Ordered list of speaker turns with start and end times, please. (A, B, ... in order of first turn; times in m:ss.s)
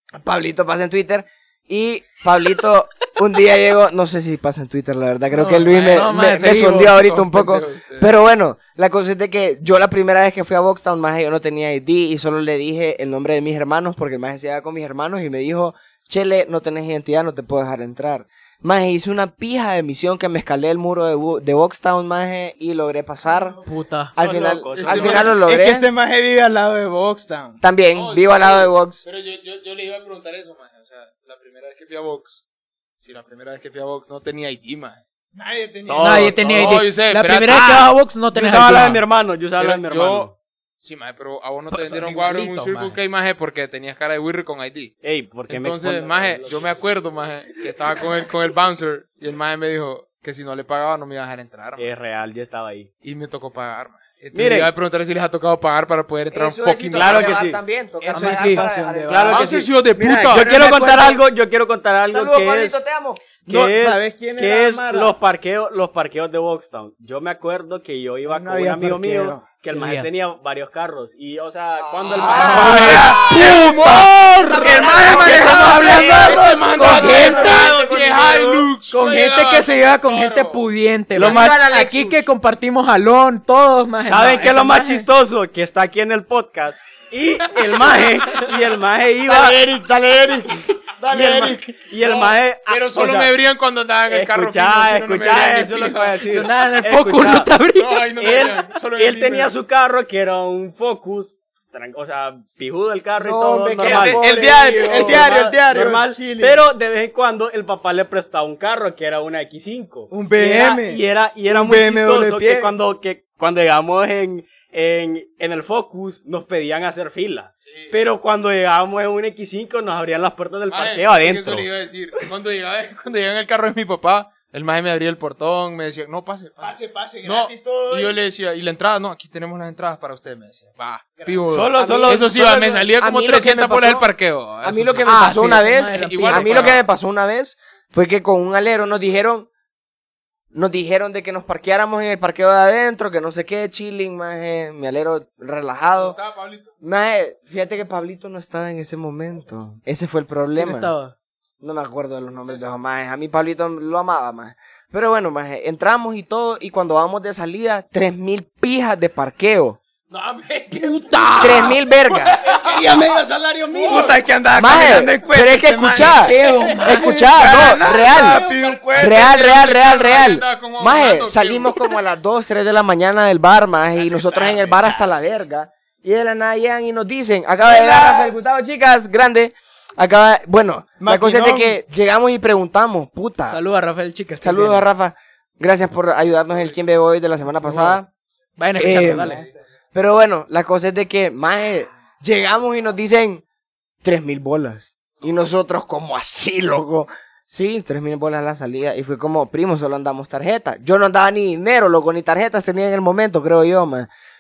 0:00.2-0:23.6 A
0:05.3-0:07.0 B
0:05.8-0:08.1 C
0:23.7-0:24.1 B
0:24.2-0:25.9 A
0:24.2-0:25.3 D
0:24.7-0:25.4 C
0:24.9-0:27.6 E
0:27.6-0:29.0 A
0:27.9-0:32.4 C
0:33.0-0:35.0 C
0:35.4-0:36.4 E
0:35.9-0:36.8 D
0:36.0-0:39.0 B
0:36.5-0:38.0 C
0:38.3-0:40.3 D
0:39.6-0:44.9 C
0:41.7-0:43.0 B
0:45.0-0:46.7 D
0:45.5-0:51.9 C
0:51.8-0:52.9 D
0:53.0-0:57.4 C
0:54.3-0:54.7 D
0:56.3-1:00.4 A
0:56.9-0:57.6 D
0:58.0-0:59.5 E
0:58.1-0:58.7 B
0:59.1-1:02.8 D
0:59.3-1:00.5 C
1:00.3-1:01.2 B
1:02.1-1:03.2 A
1:03.5-1:13.2 D
1:03.5-1:05.1 E
1:08.3-1:09.4 E
1:09.7-1:10.1 B
1:12.1-1:20.6 C
1:12.1-1:12.6 A
1:12.2-1:17.7 E
1:14.6-1:16.4 A
1:15.1-1:15.6 D
1:15.3-1:17.6 B
1:16.9-1:18.7 A
1:18.9-1:25.1 B
1:21.2-1:21.6 D
1:21.2-1:22.2 A
1:24.0-1:29.6 D
1:27.6-1:28.5 C
1:29.3-1:30.5 A
1:31.1-1:33.4 D
1:31.2-1:31.5 E
1:32.1-1:36.4 C
1:34.1-1:37.5 D
1:36.3-1:38.1 B
1:37.7-1:39.5 C
1:38.2-2:01.7 D
1:43.2-1:45.2 A
1:43.8-1:45.2 C
1:44.0-1:46.6 E
1:50.1-1:52.7 E
1:57.7-1:57.9 C
2:00.7-2:16.8 C
2:06.6-2:08.2 E
2:11.2-2:12.2 E
2:11.5-2:12.8 D
2:12.1-2:14.1 A
2:14.6-2:19.5 A
2:15.0-2:16.8 B
2:20.5-2:26.2 A
2:26.0-2:26.7 C
2:26.8-2:30.9 A
2:30.6-2:31.1 B
2:31.6-2:39.8 A
2:40.1-2:43.2 C
2:40.8-2:41.8 B
2:41.4-2:42.4 A
2:42.5-2:44.2 D
2:43.7-2:44.2 C
2:43.9-2:49.3 E
2:44.5-2:48.4 A
2:46.2-2:47.3 B
2:46.5-2:52.0 C
2:49.0-3:03.6 A
2:54.0-2:55.0 D
2:57.6-2:58.4 E
3:01.0-3:01.8 E
3:03.5-3:04.8 B
3:04.4-3:08.1 A
3:08.6-3:09.4 B
3:08.8-3:09.4 A
3:09.9-3:13.4 A
3:14.0-3:24.1 A